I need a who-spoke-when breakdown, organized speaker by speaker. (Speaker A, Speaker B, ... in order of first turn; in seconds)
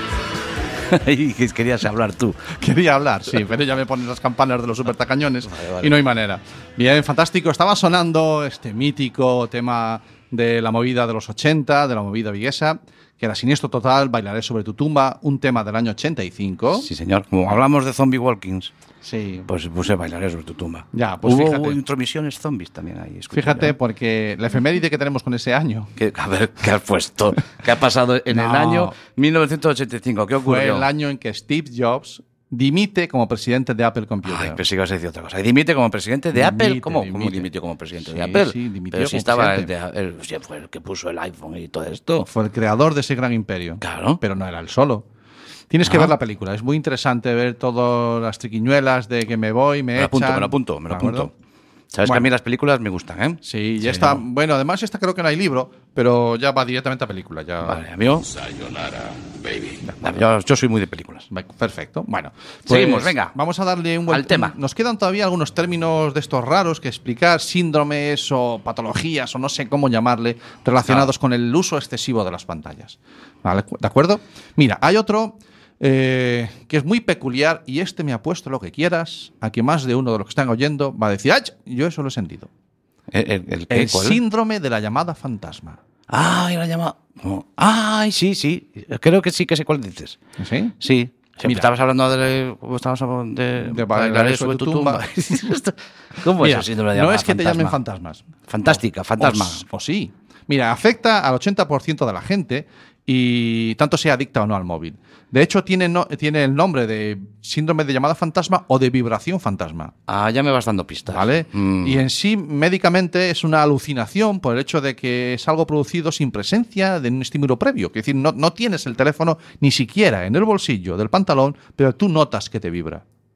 Speaker A: 0.9-2.5, 5.4-6.0, 16.8-18.7, 19.5-23.7, 26.0-30.9, 34.2-42.3, 43.8-44.2, 45.8-46.1, 50.0-51.3, 51.9-54.2, 57.6-58.3, 60.0-61.3, 62.7-63.4, 64.1-64.5, 83.1-84.2, 86.1-90.2, 90.8-97.8, 98.5-99.6, 110.1-112.0
Speaker B: 2.5-16.9, 19.0-19.5, 20.9-21.8, 23.3-25.9, 28.3-29.0, 30.4-34.6, 36.3-39.7, 42.3-45.0, 45.7-51.3, 52.0-52.3, 53.4-57.8, 59.8-60.2, 61.3-82.5, 83.7-85.8, 90.4-90.7, 91.4-91.7, 93.6-95.6, 96.4-109.9, 111.1-123.0